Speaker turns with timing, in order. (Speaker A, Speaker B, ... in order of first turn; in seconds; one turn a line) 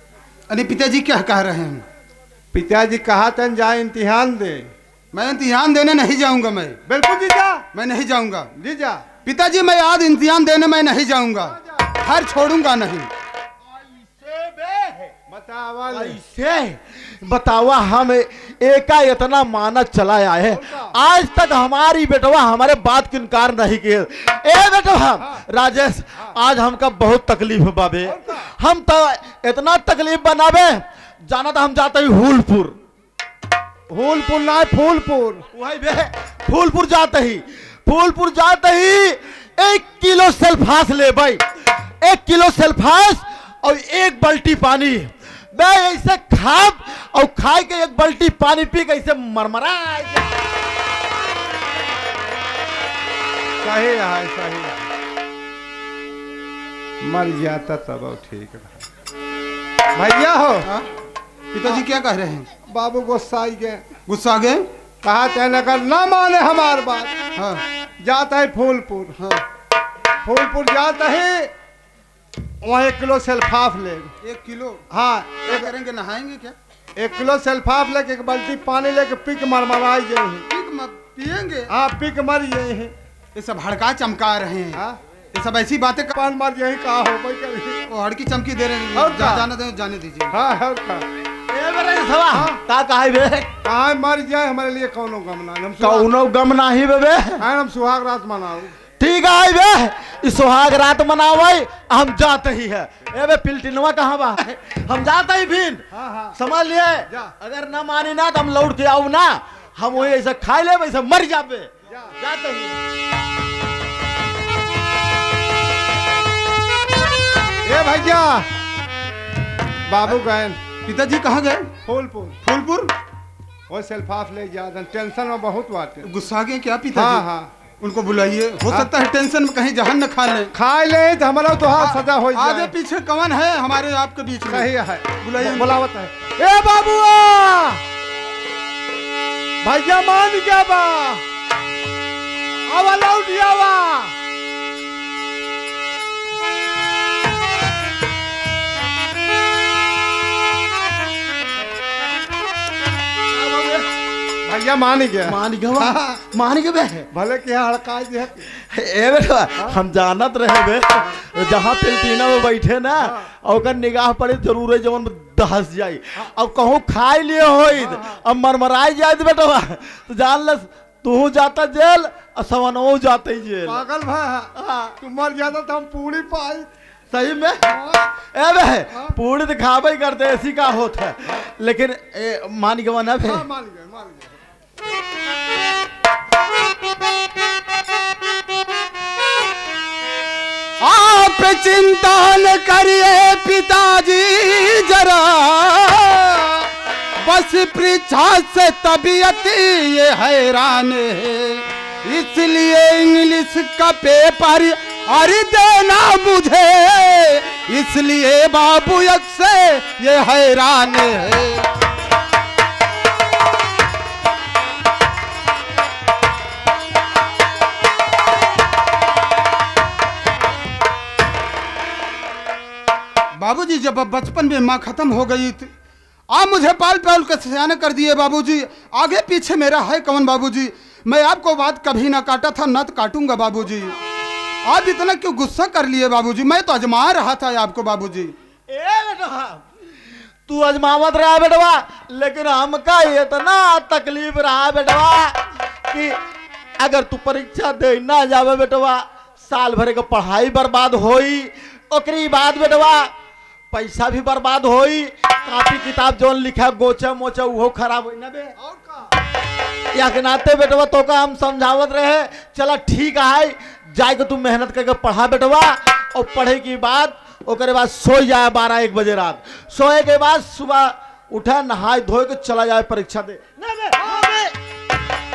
Speaker A: 0.5-1.9
Speaker B: 2.5-4.7
Speaker A: 5.1-6.8
Speaker B: 6.9-7.6
Speaker A: 7.7-8.5
Speaker B: 8.6-9.1
Speaker A: 9.3-13.1
Speaker B: 11.5-11.9
Speaker C: 14.3-15.1
Speaker B: 15.3-16.2
Speaker C: 15.9-32.8
Speaker B: 20.5-20.9
Speaker B: 28.1-28.5
Speaker B: 33.9-35.5
Speaker C: 35.5-50.3
Speaker B: 53.6-54.9
Speaker B: 57.0-58.8
Speaker B: 60.0-60.7
Speaker A: 61.5-62.5
Speaker B: 62.7-63.9
Speaker A: 64.1-64.7
Speaker B: 65.0-67.2
Speaker A: 67.4-67.6
Speaker B: 68.0-69.2
Speaker A: 69.2-69.4
Speaker B: 70.2-71.5
Speaker B: 72.6-74.1
Speaker A: 74.2-74.9
Speaker B: 74.9-75.7
Speaker A: 75.5-76.6
Speaker B: 77.0-80.5
Speaker A: 80.5-81.7
Speaker B: 81.7-82.9
Speaker A: 83.3-84.8
Speaker A: 85.3-86.1
Speaker B: 86.1-87.8
Speaker A: 87.9-90.3
Speaker B: 89.0-89.5
Speaker B: 90.3-91.0
Speaker C: 91.5-93.5
Speaker B: 92.3-92.6
Speaker B: 93.7-96.1
Speaker C: 95.8-97.4
Speaker B: 97.4-98.7
Speaker C: 99.0-105.8
Speaker B: 105.9-106.4
Speaker C: 106.4-112.8
Speaker B: 111.9-112.2
Speaker B: 117.7-118.5
Speaker B: 119.9-120.6
Speaker A: 120.8-121.7
Speaker B: 121.9-122.4
Speaker A: 122.4-122.9
Speaker B: 123.7-126.1
Speaker A: 126.0-127.3
Speaker B: 127.0-127.5
Speaker A: 127.8-130.5
Speaker B: 130.5-132.7
Speaker A: 131.8-134.7
Speaker B: 134.5-137.8
Speaker A: 135.2-135.8
Speaker B: 139.6-141.2
Speaker B: 142.7-144.1
Speaker B: 153.4-153.8
Speaker B: 154.5-156.2
Speaker C: 155.3-157.1
Speaker B: 157.1-158.5
Speaker C: 158.5-173.8
Speaker B: 163.0-163.3
Speaker B: 167.7-168.2
Speaker B: 173.7-176.7
Speaker C: 174.6-175.0
Speaker C: 177.1-177.7
Speaker B: 177.7-178.1
Speaker C: 178.3-183.4
Speaker B: 183.3-184.3
Speaker A: 190.8-196.7
Speaker A: 197.2-211.7
Speaker A: 223.3-225.7
Speaker A: 226.3-234.0
Speaker A: 234.7-238.3
Speaker C: 238.7-239.7
Speaker C: 240.5-246.2
Speaker C: 246.8-253.1
Speaker C: 253.7-258.5
Speaker B: 258.6-259.1
Speaker C: 259.9-273.5
Speaker B: 273.7-274.5